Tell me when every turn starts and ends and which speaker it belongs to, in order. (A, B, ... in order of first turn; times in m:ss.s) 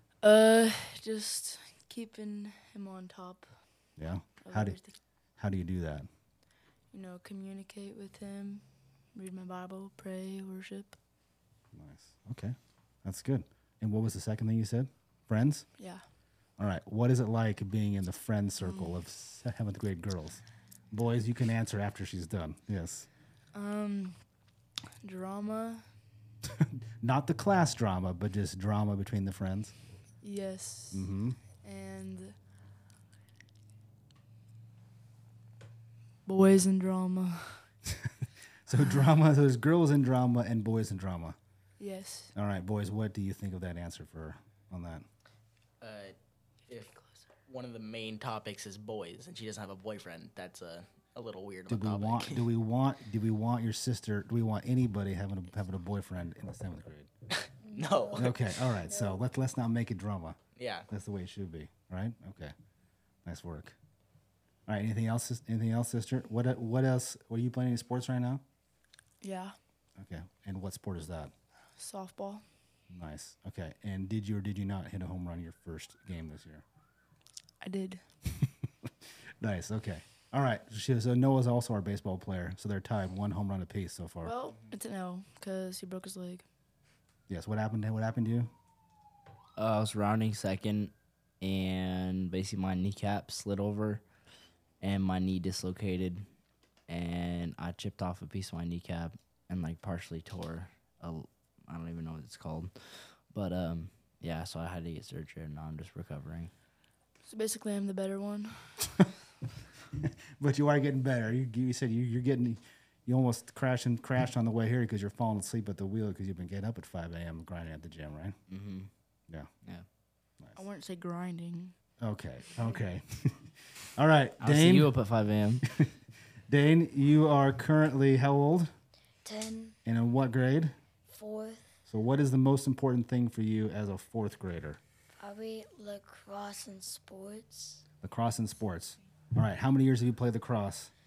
0:00.2-0:03.5 A
0:04.0-0:04.8 B
0:04.4-0:04.9 A
0:05.4-0:06.1 B
0:06.9-0:11.0 A
0:11.7-0:15.7 B
0:15.8-0:16.0 A
0:16.6-0:23.1 B
0:18.6-0:18.9 A
0:23.5-0:24.2 A
0:25.0-0:25.9 A
0:26.5-0:29.7 B
0:30.2-0:32.3 A
0:30.9-0:31.4 B
0:36.2-0:37.6 A
0:38.6-0:41.4 B
0:41.8-0:42.3 A
0:42.3-0:45.0 B
0:45.8-0:46.2 C
0:46.7-0:52.4 C
0:51.7-0:57.1 B
0:57.4-0:58.6 C
0:57.6-0:59.2 D
0:58.2-1:02.5 B
1:00.6-1:00.9 C
1:03.2-1:03.8 B
1:04.7-1:08.4 B
1:09.2-1:09.5 A
1:10.0-1:11.3 B
1:11.8-1:12.4 A
1:12.9-1:16.6 B
1:17.6-1:18.0 A
1:18.4-1:24.3 B
1:24.2-1:26.4 A
1:27.3-1:28.5 B
1:29.6-1:34.0 E
1:34.8-1:36.2 E
1:36.9-1:46.5 E
1:47.2-1:48.8 A
1:50.0-1:58.4 B
1:58.5-1:58.9 E
2:00.6-2:01.7 A
2:02.0-2:04.9 B
2:04.4-2:05.6 E
2:05.7-2:05.9 B
2:06.5-2:08.7 B
2:09.2-2:09.8 D
2:09.8-2:10.7 B
2:11.1-2:11.7 D
2:11.9-2:14.8 B
2:15.2-2:17.8 D
2:18.0-2:20.9 B